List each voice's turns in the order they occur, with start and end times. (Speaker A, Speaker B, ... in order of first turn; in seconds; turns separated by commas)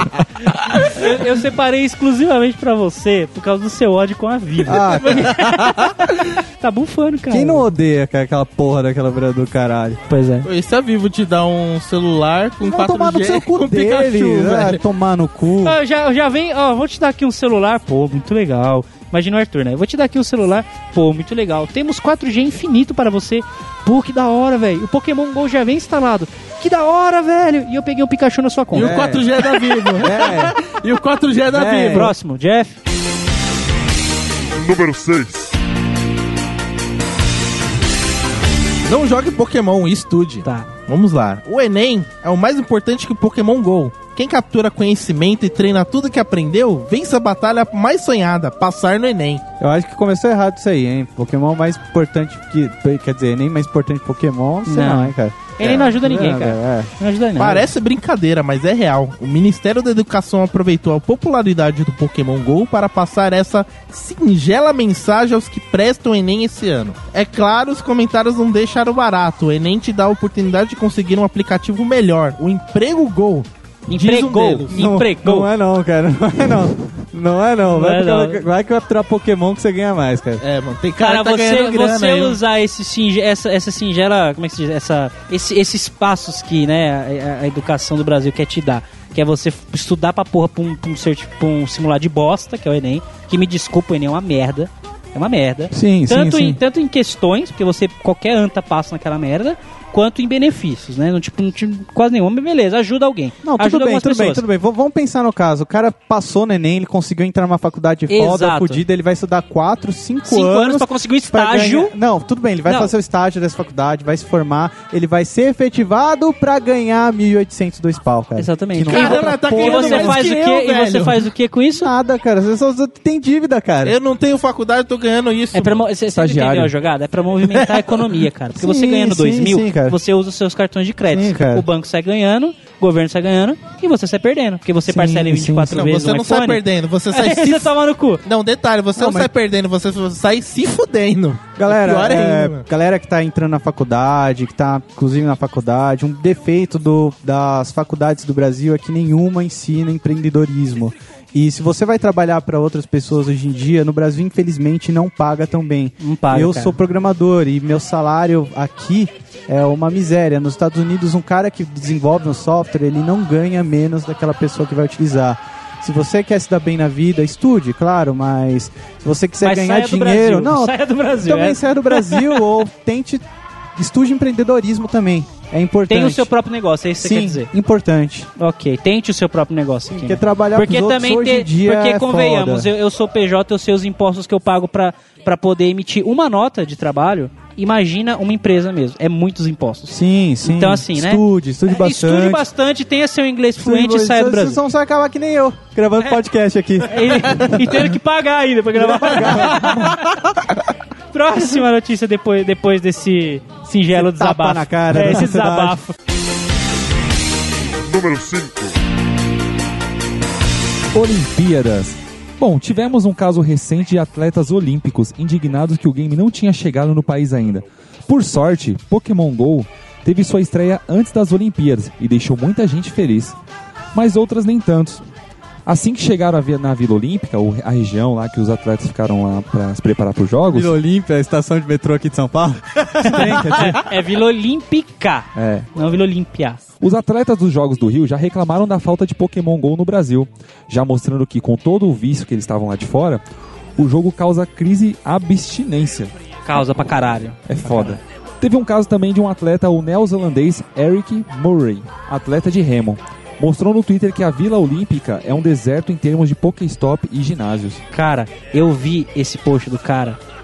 Speaker A: 0.8-7.7, Speaker B: 4.7-5.4, Speaker C: 5.0-5.7, Speaker B: 7.3-10.0, Speaker A: 10.1-10.5, Speaker C: 10.4-14.8, Speaker B: 12.6-15.8, Speaker A: 15.6-29.0, Speaker C: 28.7-32.1, Speaker B: 28.7-29.4, Speaker B: 29.9-30.6, Speaker B: 31.5-32.1, Speaker A: 31.9-32.8, Speaker D: 34.5-35.5, Speaker C: 38.8-49.4, Speaker A: 40.4-40.7, Speaker B: 49.6-56.9, Speaker A: 54.6-57.6, Speaker C: 57.4-74.8, Speaker A: 73.9-75.5, Speaker B: 74.7-80.4, Speaker A: 77.7-78.4, Speaker C: 80.4-82.4, Speaker A: 81.0-104.4, Speaker B: 95.7-96.6, Speaker B: 103.4-120.3, Speaker A: 108.1-108.8, Speaker A: 110.3-111.9, Speaker A: 118.3-121.9, Speaker C: 118.9-121.2, Speaker B: 121.8-124.0, Speaker C: 123.8-125.8, Speaker A: 125.5-138.2, Speaker E: 126.1-126.7, Speaker B: 128.6-130.0, Speaker B: 131.1-131.7, Speaker B: 134.9-135.8, Speaker C: 135.7-137.7, Speaker C: 138.2-142.6, Speaker B: 138.9-139.3, Speaker B: 141.6-173.2, Speaker A: 156.0-156.8, Speaker A: 169.4-172.4, Speaker B: 173.8-176.3, Speaker A: 175.9-177.5, Speaker B: 177.0-178.3, Speaker A: 178.4-194.6, Speaker B: 179.9-182.7, Speaker B: 189.9-192.4, Speaker B: 193.6-197.9, Speaker A: 196.8-200.0, Speaker B: 198.7-200.0, Speaker A: 201.1-205.9, Speaker B: 203.9-205.8, Speaker D: 207.8-208.8, Speaker E: 210.9-223.3, Speaker E: 223.9-225.0, Speaker E: 225.7-230.7, Speaker B: 230.5-233.8, Speaker A: 233.0-236.6, Speaker E: 235.3-235.7, Speaker E: 236.8-243.2, Speaker E: 243.8-246.1, Speaker A: 246.4-248.0, Speaker E: 247.4-257.8, Speaker A: 257.9-260.2